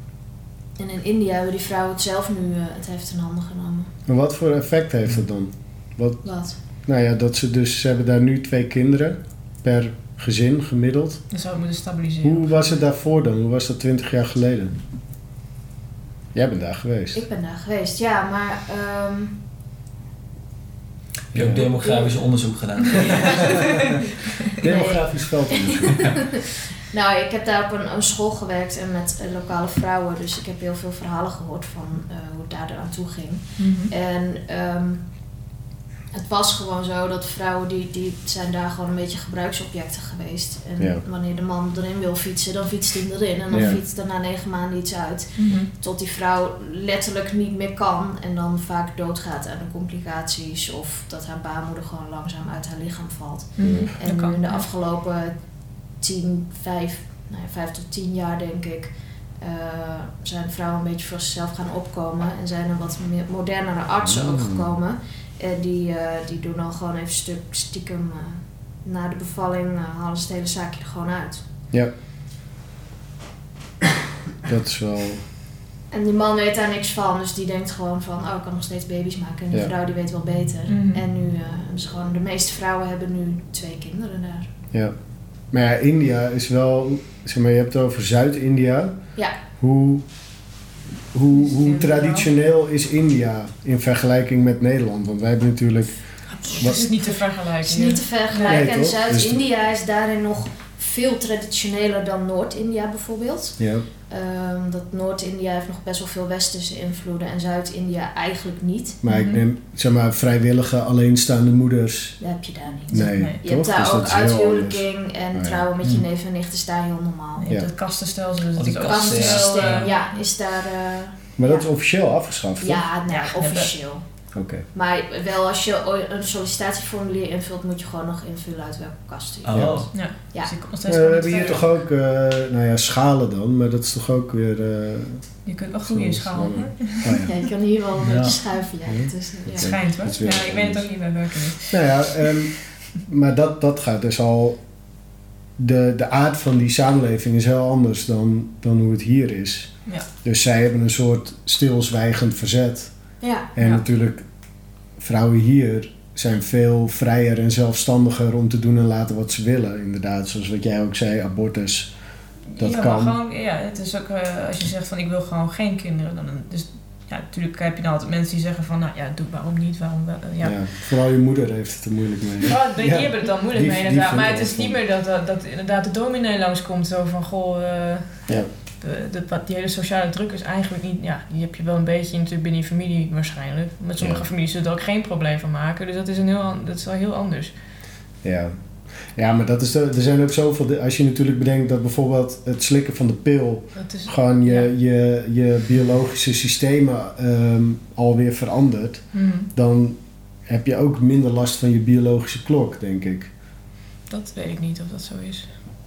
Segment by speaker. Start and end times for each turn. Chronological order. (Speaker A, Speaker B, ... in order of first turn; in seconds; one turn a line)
Speaker A: 0.8-3.9
Speaker B: 4.1-6.2
Speaker A: 6.2-6.6
Speaker B: 6.8-11.2
Speaker C: 11.3-12.8
Speaker B: 12.2-14.8
Speaker B: 16.3-17.2
Speaker A: 17.1-19.4
Speaker D: 21.3-23.6
Speaker B: 21.3-21.6
Speaker A: 21.7-22.1
Speaker A: 22.8-23.9
Speaker A: 24.6-35.0
Speaker B: 24.6-26.0
Speaker C: 33.6-33.9
Speaker A: 36.1-55.4
Speaker B: 43.5-43.8
Speaker C: 45.4-45.7
Speaker C: 53.6-54.6
Speaker B: 53.6-53.9
Speaker A: 56.0-71.4
Speaker B: 64.0-64.7
Speaker B: 74.4-75.2
Speaker A: 75.9-84.5
Speaker C: 80.7-81.0
Speaker B: 85.5-89.0
Speaker B: 89.5-90.0
Speaker B: 91.1-96.0
Speaker C: 91.3-92.3
Speaker A: 96.4-103.5
Speaker C: 96.5-98.6
Speaker B: 98.5-99.4
Speaker B: 103.6-103.8
Speaker A: 104.1-109.0
Speaker B: 109.0-112.2
Speaker C: 109.1-109.4
Speaker A: 112.2-117.5
Speaker C: 112.9-113.4
Speaker B: 112.9-115.7
Speaker C: 117.4-120.0
Speaker D: 118.5-119.9
Speaker A: 118.8-121.7
Speaker B: 121.4-122.8
Speaker A: 122.6-124.0
Speaker C: 123.1-123.7
Speaker B: 124.3-124.6
Speaker A: 124.7-129.8
Speaker D: 129.5-129.9
Speaker B: 129.5-129.8
Speaker C: 129.9-131.8
Speaker B: 130.9-135.2
Speaker C: 135.4-137.3
Speaker B: 135.8-137.3
Speaker A: 137.2-139.7
Speaker D: 138.0-138.4
Speaker B: 138.9-140.9
Speaker C: 139.6-141.9
Speaker B: 141.7-142.5
Speaker B: 143.0-144.6
Speaker B: 145.6-149.7
Speaker B: 150.2-152.9
Speaker A: 153.2-153.5
Speaker B: 153.5-154.2
Speaker C: 153.6-153.8
Speaker B: 155.0-161.9
Speaker C: 162.5-170.6
Speaker B: 162.6-163.2
Speaker B: 170.4-174.8
Speaker C: 172.4-187.5
Speaker B: 184.0-184.2
Speaker B: 188.2-188.5
Speaker B: 189.1-203.3
Speaker C: 193.8-194.7
Speaker C: 199.1-199.5
Speaker C: 204.1-205.5